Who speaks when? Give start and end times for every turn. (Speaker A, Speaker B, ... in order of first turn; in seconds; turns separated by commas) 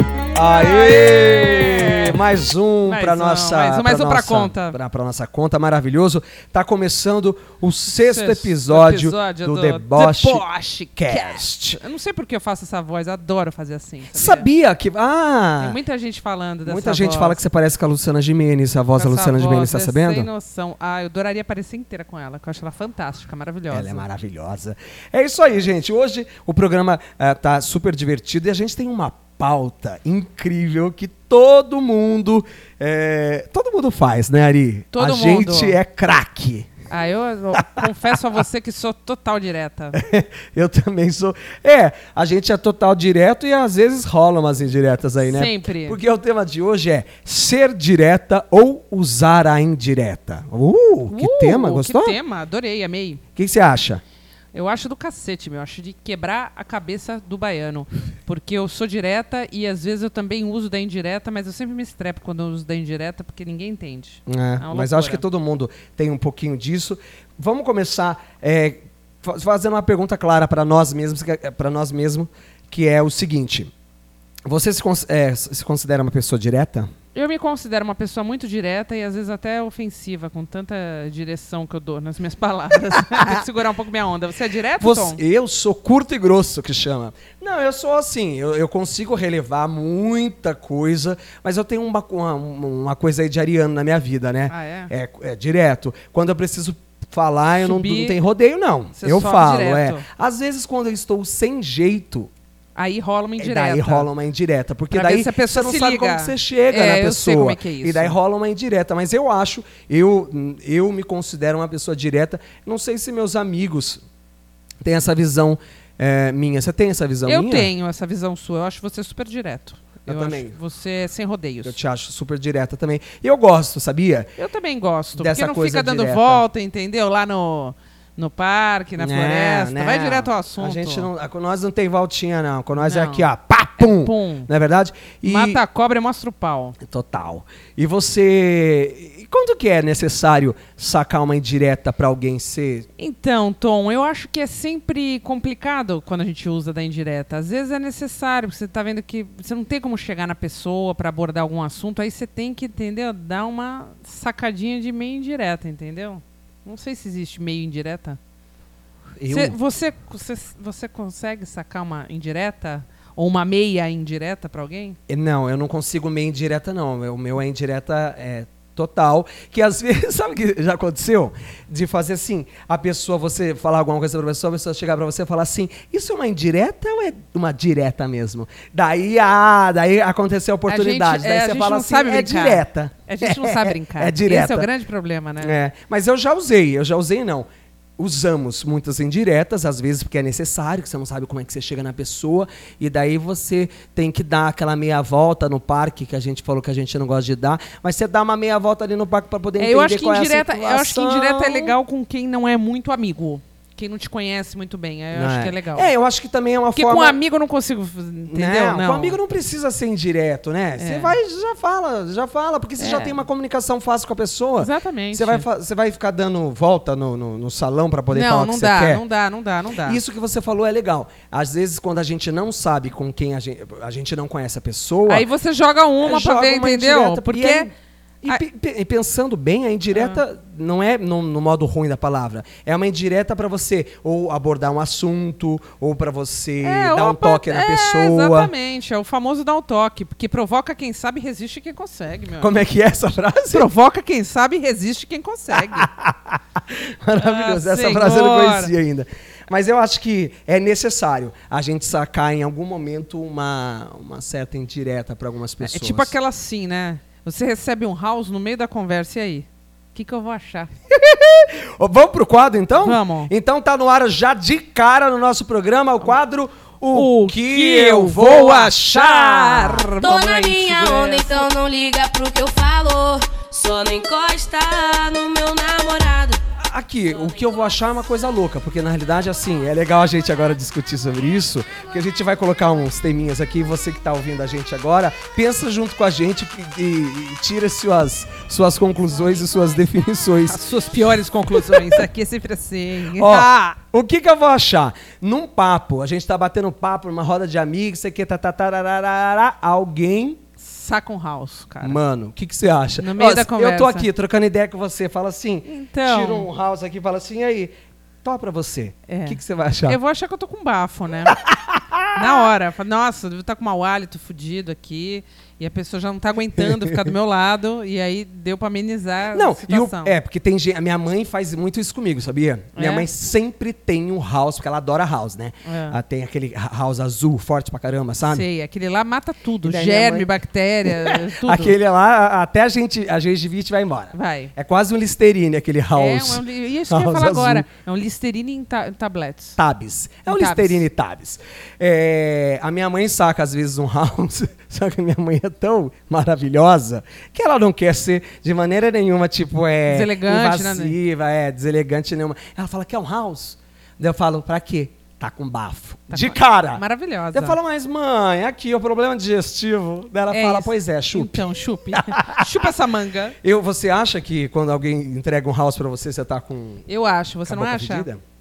Speaker A: 0.3-10.4, Speaker B: 0.4-2.2, Speaker B: 2.8-4.8, Speaker B: 8.0-14.5, Speaker A: 11.0-11.8, Speaker A: 14.1-15.8, Speaker B: 15.6-17.4, Speaker A: 16.6-20.3, Speaker B: 19.0-24.0, Speaker A: 23.7-36.7, Speaker B: 34.9-35.8, Speaker B: 36.9-40.0, Speaker A: 39.9-52.2, Speaker B: 45.2-46.0, Speaker B: 51.1-53.2, Speaker A: 53.4-54.0, Speaker B: 54.5-65.2, Speaker A: 64.3-73.7, Speaker A: 74.5-76.9, Speaker B: 77.1-85.2, Speaker A: 82.9-83.4, Speaker A: 84.8-102.3, Speaker B: 94.5-94.9, Speaker B: 97.6-98.2, Speaker B: 99.0-100.0, Speaker B: 102.8-104.1, Speaker A: 103.4-114.0, Speaker B: 104.9-108.2, Speaker A: 114.8-117.7, Speaker B: 117.2-121.8, Speaker A: 120.0-120.5, Speaker A: 121.6-124.3, Speaker B: 124.4-131.1, Speaker A: 125.1-126.4, Speaker A: 129.0-135.6, Speaker B: 132.8-134.5, Speaker B: 135.2-136.8, Speaker A: 136.8-142.9, Speaker B: 143.0-158.2, Speaker A: 159.2-159.6, Speaker B: 159.3-165.0, Speaker A: 165.1-184.7, Speaker B: 180.7-185.5, Speaker A: 185.4-201.7, Speaker B: 199.6-205.9, Speaker A: 205.1-207.2, Speaker B: 206.7-209.2, Speaker A: 208.3-219.0, Speaker B: 210.8-211.2, Speaker B: 212.8-213.2, Speaker B: 214.6-215.4, Speaker B: 218.1-220.0, Speaker A: 219.8-225.2, Speaker B: 225.1-227.7, Speaker A: 226.0-227.7, Speaker A: 228.2-238.5, Speaker B: 229.9-230.2, Speaker B: 236.6-242.6, Speaker A: 242.4-243.7, Speaker B: 243.5-245.9, Speaker A: 245.5-256.1, Speaker B: 247.1-248.7, Speaker B: 255.6-260.7, Speaker A: 260.9-269.9, Speaker B: 262.8-263.3, Speaker B: 266.9-271.5, Speaker C: 270.0-276.4, Speaker A: 276.6-290.6, Speaker B: 290.5-293.8, Speaker A: 291.5-292.0, Speaker A: 293.1-300.4, Speaker B: 300.6-302.0, Speaker A: 301.8-310.0, Speaker B: 303.0-304.1, Speaker B: 305.6-306.5, Speaker B: 309.1-311.4, Speaker A: 311.5-312.5, Speaker B: 312.1-320.1, Speaker A: 316.6-317.1, Speaker A: 319.3-328.4, Speaker B: 322.8-323.1, Speaker B: 325.6-326.0, Speaker B: 328.3-331.8, Speaker A: 329.6-330.3, Speaker A: 330.8-337.7, Speaker B: 334.1-334.5, Speaker B: 335.9-339.6, Speaker A: 339.6-362.7, Speaker B: 340.3-340.8, Speaker B: 349.9-350.9, Speaker B: 356.1-357.6, Speaker B: 360.3-363.4, Speaker A: 363.4-366.9, Speaker B: 366.9-368.1, Speaker A: 367.4-368.2